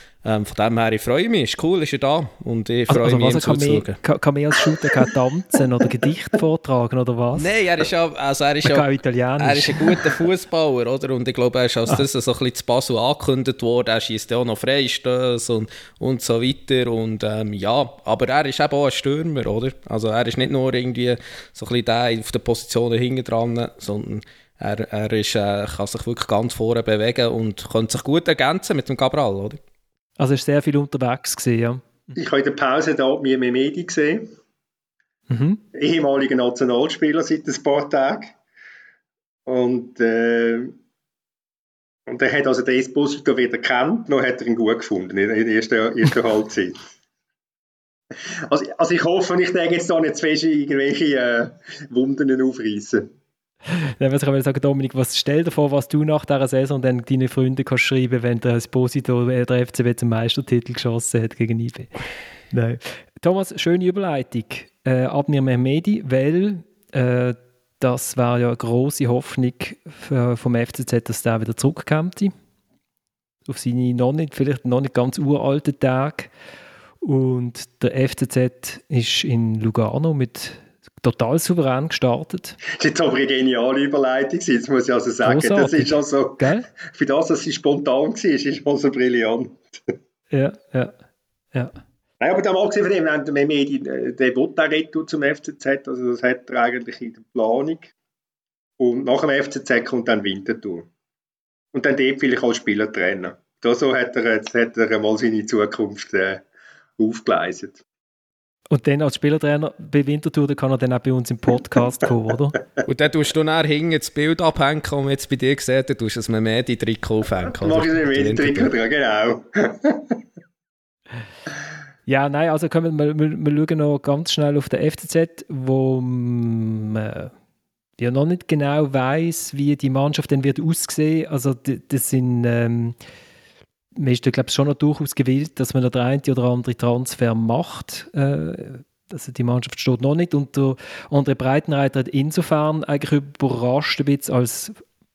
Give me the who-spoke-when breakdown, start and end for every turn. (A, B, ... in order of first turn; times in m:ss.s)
0:00.2-0:04.0 A
0:02.9-0:07.5 B
0:07.4-0:08.9 A
0:08.6-0:10.1 B
0:09.4-0:29.6 A
0:30.2-0:31.8 B
0:32.2-0:34.3 C
0:35.3-0:35.6 B
0:35.7-0:38.4 C
0:39.5-0:40.8 C
0:42.1-0:46.8 C
0:48.5-0:53.1 C
0:54.0-1:01.9 B
1:02.5-1:12.3 B
1:13.5-1:16.3 B
1:17.0-1:22.6 B
1:22.8-1:29.6 C
1:25.2-1:26.7 B
1:30.3-1:30.9 B
1:32.2-1:37.9 C
1:38.8-1:40.9 C
1:41.7-1:46.4 C
1:47.0-1:47.8 C
1:48.7-1:52.6 B
1:52.9-1:58.7 A
1:57.6-2:00.2 C
2:02.1-2:07.3 B
2:08.0-2:13.0 B
2:14.0-2:24.8 B